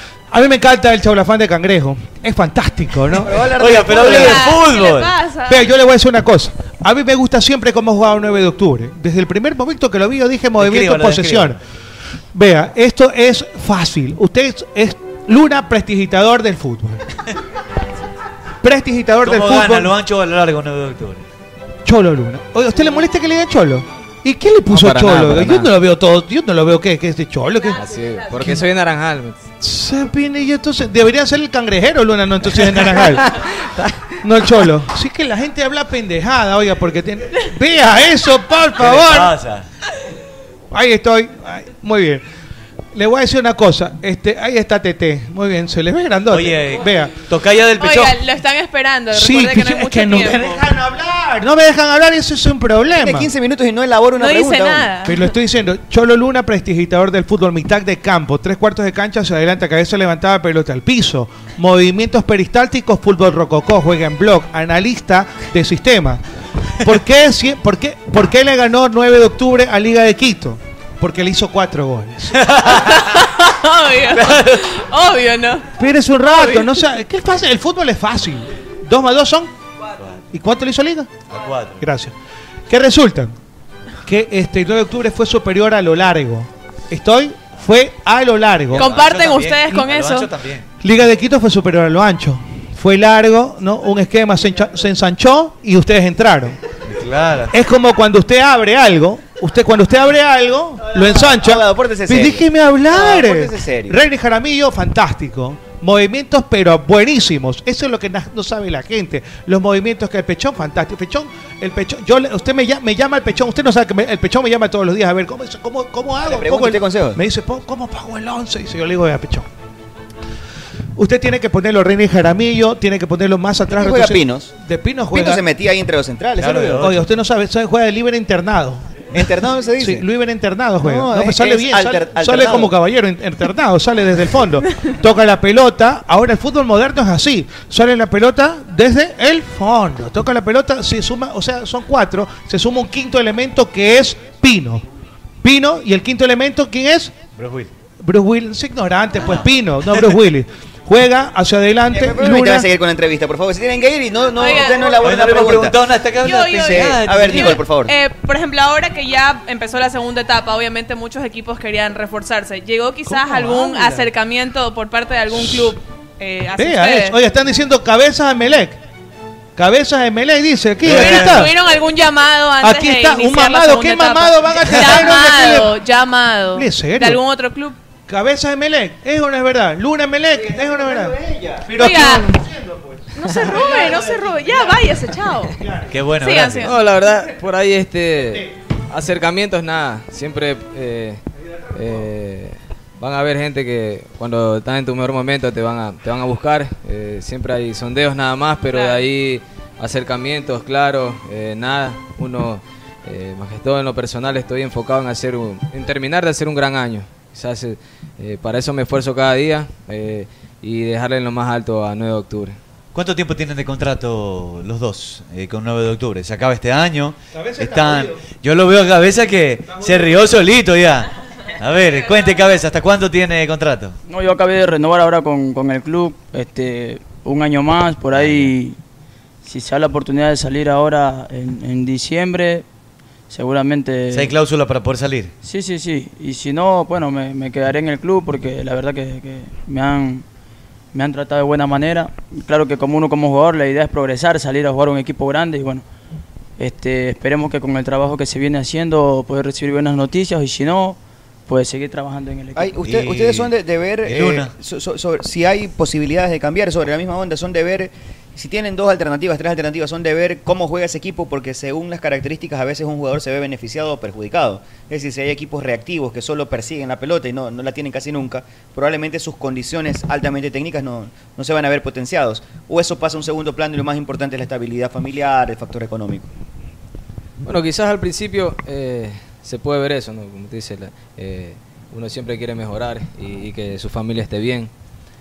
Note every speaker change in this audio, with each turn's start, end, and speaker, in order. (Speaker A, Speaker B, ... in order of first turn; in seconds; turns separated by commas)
Speaker A: 0.3-3.4, Speaker B: 3.1-4.6, Speaker C: 3.4-5.2, Speaker D: 3.9-5.6, Speaker A: 5.5-11.6, Speaker C: 10.6-11.6, Speaker A: 12.3-17.1, Speaker A: 18.6-19.9, Speaker C: 19.2-21.2, Speaker A: 21.8-27.8, Speaker E: 24.7-25.7, Speaker E: 27.7-29.4, Speaker A: 29.6-33.3, Speaker E: 32.6-34.1, Speaker A: 34.2-39.4, Speaker C: 38.8-39.6, Speaker A: 40.7-42.2, Speaker A: 42.9-47.2, Speaker C: 46.3-48.2, Speaker D: 47.8-50.6, Speaker A: 49.1-53.3, Speaker B: 52.9-54.9, Speaker D: 54.2-55.3, Speaker A: 55.0-66.2, Speaker A: 66.8-72.4, Speaker C: 72.4-73.1, Speaker D: 72.7-75.7, Speaker C: 74.1-74.7, Speaker A: 75.8-79.5, Speaker D: 76.2-76.8, Speaker A: 80.3-81.1, Speaker C: 81.3-81.8, Speaker A: 81.8-82.1, Speaker A: 82.7-83.3, Speaker A: 84.0-88.9, Speaker C: 88.7-90.6, Speaker D: 88.7-90.3, Speaker A: 90.8-96.6, Speaker C: 96.9-97.5, Speaker A: 97.5-119.5, Speaker B: 100.9-104.0, Speaker B: 116.2-117.2, Speaker A: 121.0-125.4, Speaker B: 123.7-124.5, Speaker B: 125.1-126.9, Speaker C: 126.4-127.0, Speaker A: 126.8-129.0, Speaker B: 129.1-130.0, Speaker A: 129.8-144.8, Speaker B: 130.8-132.7, Speaker A: 145.4-147.1, Speaker C: 147.3-147.7, Speaker A: 148.0-152.7, Speaker C: 149.2-149.4, Speaker B: 151.9-155.8, Speaker D: 154.3-155.0, Speaker C: 154.9-157.6, Speaker D: 156.2-167.2, Speaker B: 156.4-157.9, Speaker A: 163.1-164.1, Speaker A: 165.3-165.7, Speaker A: 166.6-168.8, Speaker A: 169.6-171.6, Speaker C: 170.8-171.5, Speaker D: 170.8-177.8, Speaker A: 172.6-175.7, Speaker A: 176.5-177.2, Speaker A: 178.1-186.0, Speaker B: 180.3-181.7, Speaker D: 181.7-182.4, Speaker D: 183.1-185.6, Speaker C: 185.9-186.8, Speaker D: 186.2-186.8, Speaker E: 186.6-191.2, Speaker E: 191.7-212.6, Speaker D: 198.7-199.0, Speaker C: 212.9-223.9, Speaker A: 217.3-218.2, Speaker A: 219.7-220.1, Speaker F: 224.1-228.8, Speaker C: 228.1-228.5, Speaker F: 229.4-232.6, Speaker F: 233.3-234.3, Speaker C: 234.1-235.3, Speaker F: 235.4-240.2, Speaker F: 240.9-245.8, Speaker F: 246.6-252.7, Speaker B: 252.6-276.3, Speaker C: 252.8-253.5, Speaker C: 254.0-254.5, Speaker E: 277.4-284.7